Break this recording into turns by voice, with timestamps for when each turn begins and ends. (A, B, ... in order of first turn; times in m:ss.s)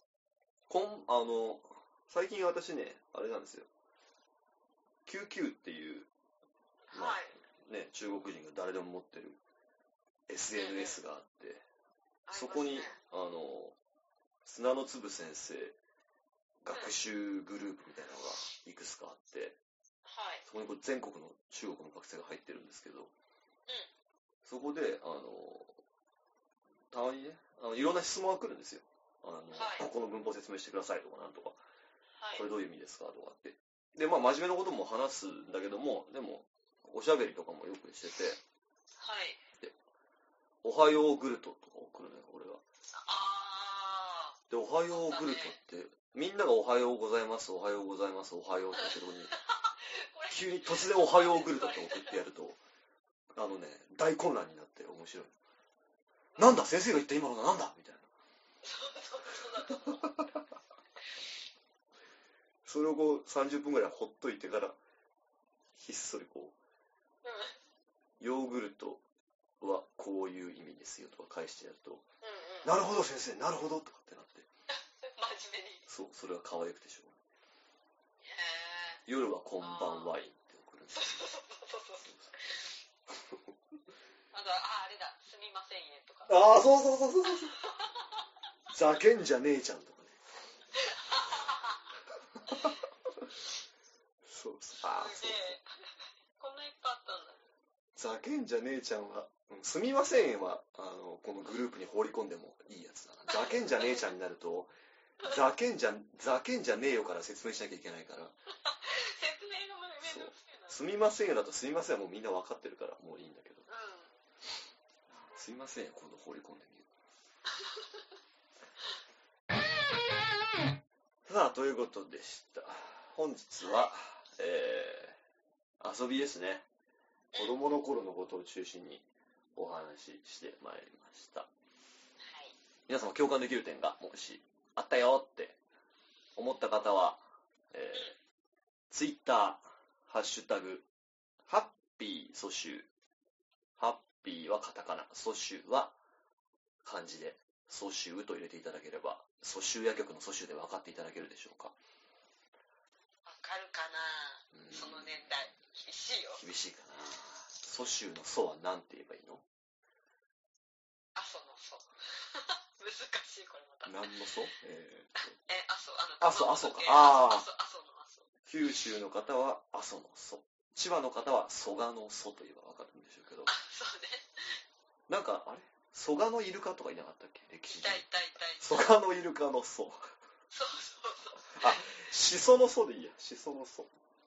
0:00.7-0:03.7 A
0:05.0-0:06.1 A
0:06.9-0:07.4 B
0:06.9-0:09.4 A
0:10.3-0:11.6 A
0:10.5-0:11.0 B
0:12.2-0:13.0 B
0:12.3-0:13.8 A
0:14.4-0:15.8 A
0:16.6-0:19.6 A
0:20.0-0:20.4 B
0:20.4-0:23.1 A
0:24.4-0:25.8 A
0:26.9-0:31.6 A
0:29.5-0:29.8 B
0:32.2-0:32.5 B
0:32.3-0:38.4 A
0:39.0-0:39.4 B
0:40.6-0:42.6 A
0:42.9-0:44.4 B
0:44.5-0:49.3 A
0:44.9-0:45.6 B
0:48.8-0:52.2 B
0:50.3-0:52.6 A
0:53.3-0:55.3 A
0:56.3-0:56.6 B
0:56.4-0:58.1 A
0:58.6-1:00.2 B
1:02.6-1:04.8 A
1:05.7-1:06.5 A
1:07.2-1:07.6 B
1:08.2-1:09.0 A
1:09.6-1:12.0 A
1:12.2-1:12.8 B
1:12.6-1:14.5 A
1:14.7-1:15.8 B
1:15.9-1:17.2 A
1:18.2-1:19.0 B
1:19.0-1:21.3 A
1:19.6-1:20.2 B
1:20.9-1:22.8 B
1:22.0-1:22.3 A
1:23.2-1:23.4 A
1:24.3-1:26.5 B
1:26.3-1:27.5 A
1:27.2-1:28.2 B
1:28.7-1:30.2 A
1:30.7-1:31.9 B
1:32.5-1:32.8 B
1:34.2-1:35.6 A
1:34.7-1:37.5 B
1:37.9-1:44.7 A
1:43.3-1:44.0 B
1:45.2-1:48.3 A
1:48.5-1:50.8 B
1:50.0-1:53.6 A
1:53.7-1:54.1 B
1:55.1-1:56.9 A
1:57.6-1:57.8 B
2:01.2-2:05.2 A
2:05.8-2:06.6 A
2:07.4-2:11.5 A
2:12.2-2:12.6 B
2:12.9-2:15.6 A
2:16.4-2:18.1 A
2:18.9-2:20.9 A
2:21.4-2:22.9 A
2:23.8-2:25.9 A
2:26.8-2:31.8 A
2:33.2-2:36.4 B
2:34.5-2:35.3 A
2:36.4-2:39.4 A
2:41.1-2:44.1 B
2:43.8-2:45.4 A
2:45.4-2:48.3 B
2:46.2-2:47.4 A
2:48.4-2:53.5 A
2:53.5-2:54.6 B
2:55.1-2:58.0 A
2:57.7-2:58.9 B
2:58.6-3:00.1 A
3:00.5-3:02.0 B
3:01.5-3:03.9 A